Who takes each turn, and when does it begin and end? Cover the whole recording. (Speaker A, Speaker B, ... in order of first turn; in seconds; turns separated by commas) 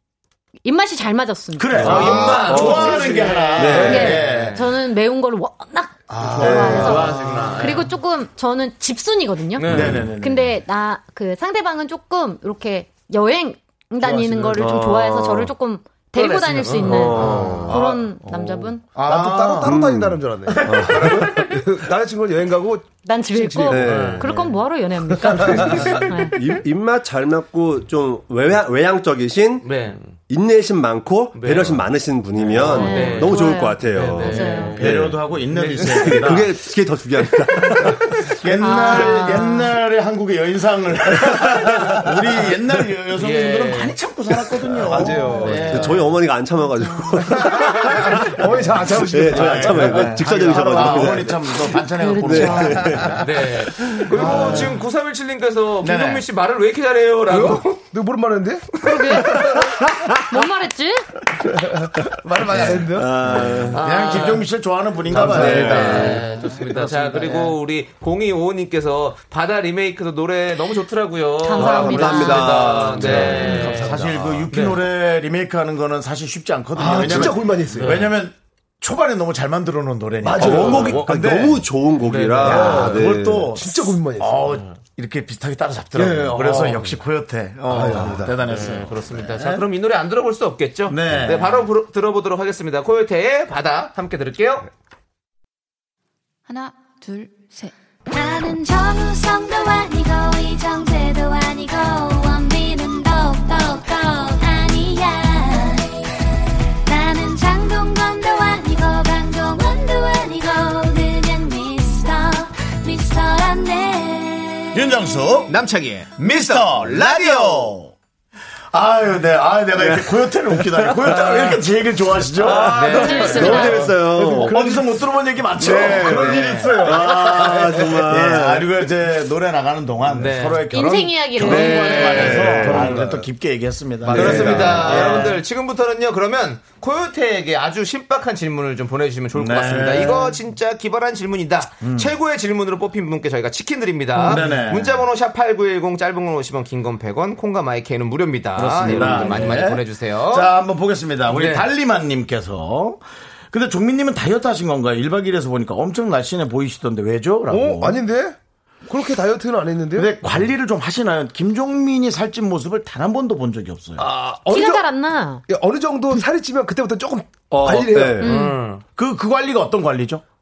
Speaker A: 0.7-18.9, Speaker B: 1.6-4.7, Speaker C: 1.8-4.7, Speaker D: 1.9-3.0, Speaker E: 2.5-3.0, Speaker E: 3.6-4.2, Speaker B: 6.1-7.6, Speaker D: 6.2-6.7, Speaker C: 6.4-7.9, Speaker C: 9.6-10.1, Speaker B: 9.6-10.6, Speaker E: 9.7-10.0, Speaker D: 14.0-14.6, Speaker E: 14.5-15.5, Speaker C: 16.2-17.8, Speaker E: 16.8-18.7, Speaker B: 17.3-17.9, Speaker D: 18.9-23.8, Speaker B: 18.9-19.8, Speaker E: 19.6-21.4, Speaker A: 23.0-26.6, Speaker E: 23.6-24.6, Speaker C: 23.8-24.3, Speaker D: 25.1-26.0, Speaker E: 25.4-38.0, Speaker C: 29.6-30.1, Speaker C: 31.3-31.8, Speaker C: 32.6-35.0, Speaker A: 32.7-34.9, Speaker B: 34.7-36.6, Speaker C: 35.5-36.2, Speaker B: 38.4-46.1, Speaker A: 38.6-39.8, Speaker C: 43.2-44.0, Speaker D: 44.9-45.8, Speaker C: 45.3-45.9, Speaker E: 45.7-48.3, Speaker D: 47.4-51.4, Speaker E: 49.0-51.5, Speaker B: 49.2-53.2, Speaker A: 52.0-52.8, Speaker E: 52.2-53.3, Speaker C: 53.0-57.8, Speaker B: 54.1-54.8, Speaker D: 54.1-54.7, Speaker B: 55.8-56.2, Speaker D: 57.3-59.7, Speaker A: 58.8-59.6, Speaker A: 60.3-61.1, Speaker D: 61.8-63.1, Speaker E: 62.7-63.8, Speaker B: 63.2-67.6, Speaker C: 63.7-64.5, Speaker C: 65.1-74.8, Speaker E: 65.1-66.2, Speaker D: 65.1-65.9, Speaker A: 71.4-72.7, Speaker E: 71.5-74.1, Speaker B: 72.9-81.7, Speaker D: 73.6-74.0, Speaker D: 76.8-78.1, Speaker E: 77.0-77.3, Speaker C: 77.7-78.1, Speaker D: 80.2-81.4, Speaker E: 80.4-83.5, Speaker C: 82.0-83.0, Speaker D: 82.4-84.5, Speaker B: 82.5-89.7, Speaker D: 86.0-86.9, Speaker D: 87.7-88.4, Speaker C: 88.4-94.7, Speaker B: 90.9-91.7, Speaker F: 98.1-106.1, Speaker F: 106.9-114.8, Speaker B: 114.7-115.6, Speaker C: 115.5-117.8, Speaker B: 116.2-117.9, Speaker B: 118.7-123.7, Speaker E: 119.8-121.5, Speaker D: 122.4-125.0, Speaker E: 122.4-124.6, Speaker C: 122.5-123.7, Speaker A: 123.0-123.9, Speaker B: 124.4-135.4, Speaker D: 125.6-128.0, Speaker E: 125.6-128.7, Speaker C: 126.2-126.7, Speaker C: 130.1-130.7, Speaker A: 130.7-132.5, Speaker E: 131.4-133.0, Speaker C: 131.4-132.9, Speaker D: 132.6-133.3, Speaker D: 134.1-135.3, Speaker C: 134.1-150.5, Speaker E: 134.1-135.1, Speaker B: 139.3-140.4, Speaker B: 141.8-142.1, Speaker B: 144.2-145.1, Speaker B: 148.6-158.0, Speaker C: 151.3-151.7, Speaker D: 157.5-160.1, Speaker B: 159.9-164.1, Speaker D: 164.0-164.9, Speaker A: 164.5-165.4, Speaker D: 165.5-168.2, Speaker E: 167.5-168.3, Speaker A: 168.2-168.6, Speaker C: 168.2-168.8, Speaker B: 169.0-170.2